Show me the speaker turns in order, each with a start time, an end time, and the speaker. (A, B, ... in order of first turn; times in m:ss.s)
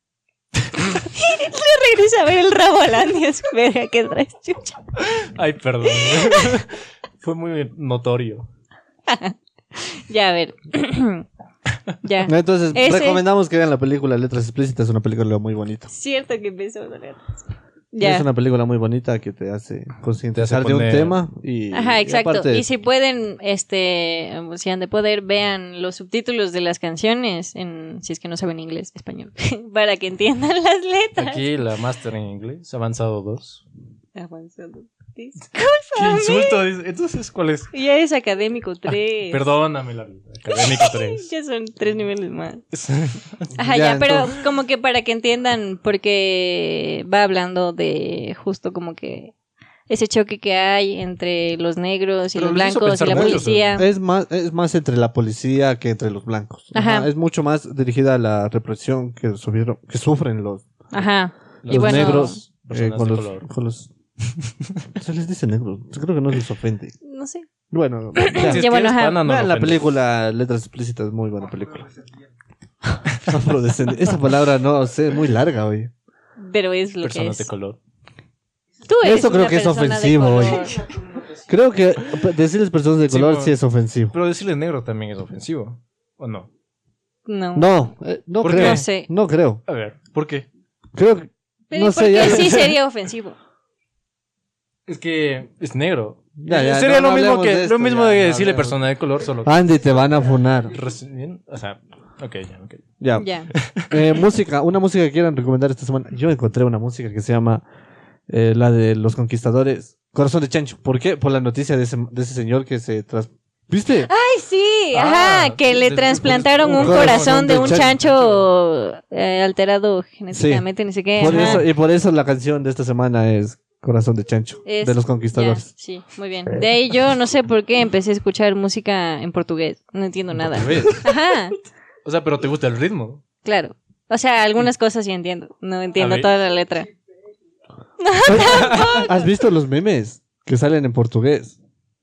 0:01.1-0:04.8 A
0:05.0-0:08.5 B
0:05.9-0:06.6 A
0:09.1-0:11.2 A
0:12.0-0:13.2 A
0:12.2-0:15.9 C
0:15.9-0:17.3 A
0:17.9-0:18.3 A
0:18.0-0:22.7 C
0:20.4-0:21.2 B
0:21.7-0:31.5 A
0:31.2-0:33.6 B
0:34.2-0:36.6 A
0:35.9-0:37.7 B
0:37.7-0:39.4 A
0:38.9-0:41.3 B
0:40.5-0:42.6 A
0:42.7-0:43.5 B
0:43.6-0:49.3 A
0:43.6-0:44.4 C
0:49.9-0:53.9 A
0:52.4-0:53.8 B
0:53.1-1:00.7 C
0:56.7-0:57.1 A
1:00.9-1:02.4 A
1:01.6-1:03.5 B
1:01.7-1:03.9 C
1:05.0-1:07.0 C
1:07.0-1:07.5 A
1:07.7-1:08.7 C
1:08.2-1:09.2 A
1:08.3-1:09.9 B
1:09.2-1:12.0 C
1:13.3-1:15.9 C
1:16.4-1:17.5 A
1:17.0-1:17.8 B
1:18.9-1:20.9 A
1:19.0-1:24.2 C
1:23.1-1:23.6 B
1:24.1-1:26.5 B
1:27.3-1:27.8 A
1:27.6-1:29.6 C
1:28.4-1:28.9 B
1:28.5-1:29.1 A
1:29.7-1:30.5 B
1:31.0-1:32.8 C
1:31.7-1:33.4 A
1:34.9-1:39.6 B
1:36.4-1:38.8 C
1:39.4-1:40.8 C
1:40.7-1:42.9 B
1:43.0-1:43.3 C
1:43.2-1:43.5 A
1:43.5-1:44.1 B
1:43.9-1:47.6 C
1:48.3-1:54.1 C
1:54.0-2:01.6 A
1:54.9-1:58.5 B
1:56.7-1:57.9 C
2:00.3-2:05.7 C
2:01.2-2:01.6 B
2:04.7-2:11.6 A
2:10.5-2:11.2 B
2:12.0-2:13.2 B
2:13.4-2:16.9 A
2:16.0-2:16.3 B
2:18.0-2:19.3 A
2:18.3-2:21.6 C
2:18.3-2:19.1 B